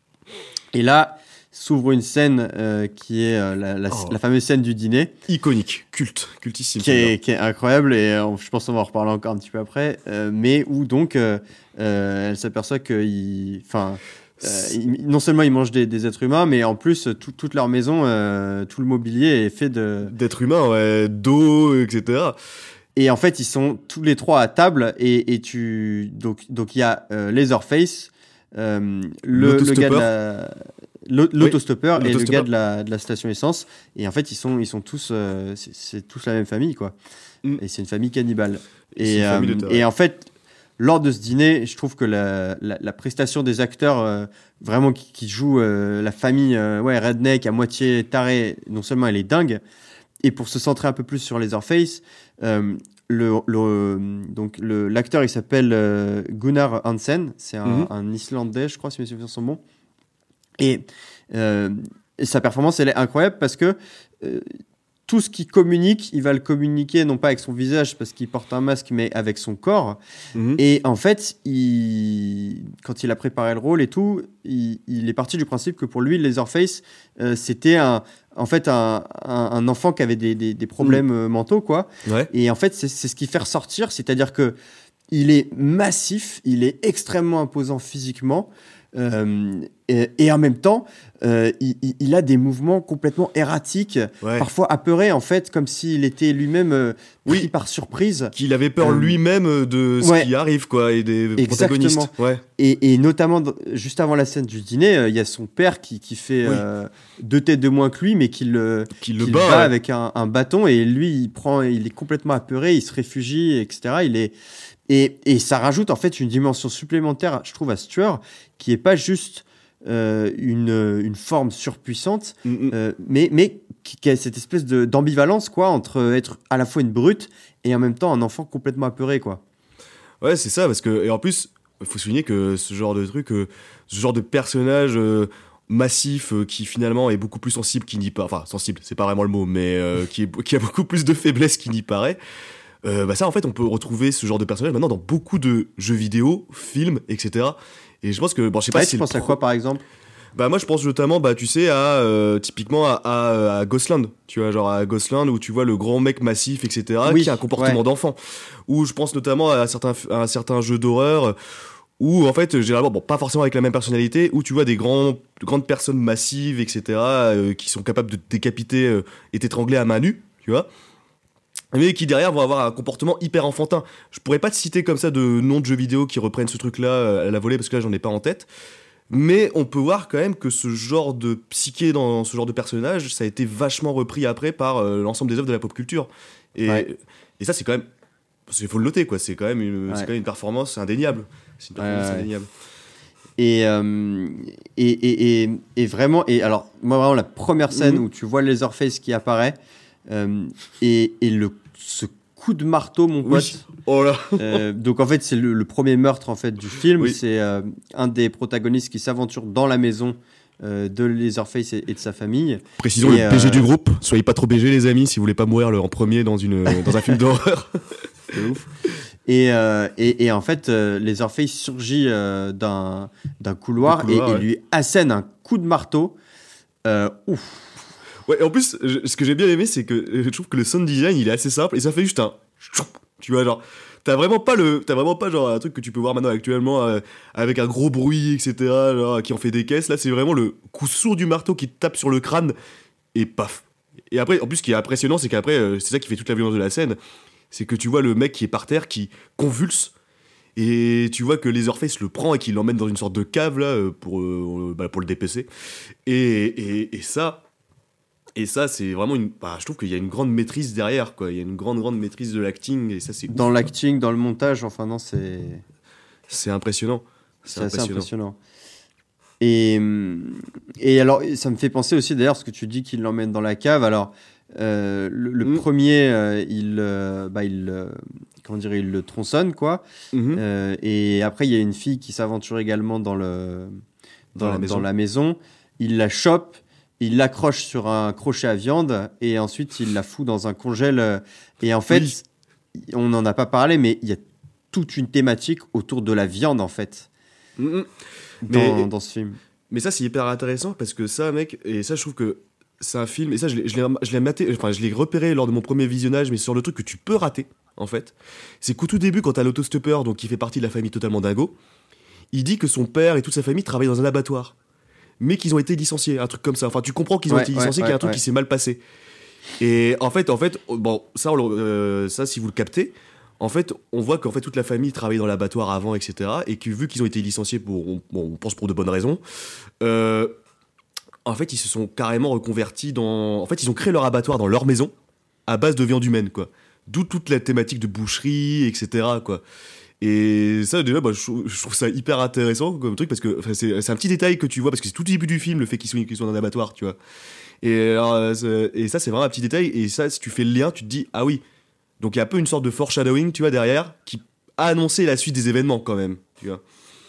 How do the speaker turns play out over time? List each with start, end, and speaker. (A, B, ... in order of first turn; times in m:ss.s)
0:00.7-0:05.1 A
0:03.9-0:04.2 B
0:05.3-0:07.1 B
0:06.8-0:20.1 A
0:14.4-0:14.8 B
0:20.0-0:22.4 B
0:23.0-0:37.0 A
0:29.3-0:30.1 B
0:31.4-0:32.5 B
0:37.6-0:49.6 A
0:39.0-0:39.8 B
0:50.2-0:59.6 A
0:57.6-0:57.9 B
1:00.6-1:04.5 A
1:05.1-1:10.0 A
1:10.4-1:10.6 B
1:10.6-1:24.6 A
1:22.0-1:22.3 B
1:25.1-1:39.2 A
1:34.2-1:34.5 B
1:38.3-1:42.4 B
1:40.0-1:40.3 A
1:41.4-1:54.3 A
1:48.9-1:49.7 B
1:54.9-2:09.4 A
2:02.4-2:02.8 B
2:10.2-2:22.2 B
2:22.8-2:29.4 B
2:28.7-2:29.8 A
2:30.4-2:41.4 B
2:37.1-2:37.8 A
2:42.0-2:50.7 B
2:51.7-2:58.5 B
2:59.1-3:07.9 B
3:08.5-3:12.5 B
3:11.8-3:12.3 A
3:13.4-3:19.6 A
3:17.7-3:18.0 B
3:20.1-3:23.6 A
3:23.2-3:24.6 B
3:24.4-3:33.7 A
3:32.8-3:37.8 B
3:36.7-3:37.1 A
3:38.3-3:38.7 A
3:39.3-3:46.2 A
3:43.8-3:44.5 B
3:46.8-3:47.8 A
3:48.3-4:02.6 B
4:03.1-4:07.0 B
4:07.5-4:09.9 B
4:10.6-4:15.5 B
4:16.1-4:17.4 B
4:18.4-4:23.7 B
4:23.3-4:25.6 A
4:26.3-4:28.1 B
4:27.5-4:28.4 A
4:29.4-4:39.8 A
4:40.1-4:40.4 B
4:40.3-4:43.8 A
4:44.4-4:44.9 B
4:44.4-4:52.2 A
4:51.9-4:52.2 B
4:52.8-4:57.1 A
4:57.6-4:57.9 B
4:58.4-4:59.4 A
4:58.5-4:58.9 B
4:59.7-5:11.6 B
5:12.3-5:14.5 B
5:15.2-5:18.8 B
5:17.3-5:18.2 A
5:19.6-5:29.2 B
5:29.8-5:30.4 B
5:31.2-5:34.9 B
5:35.5-5:39.4 B
5:40.0-5:47.0 B
5:47.6-5:51.4 B
5:52.0-5:56.6 B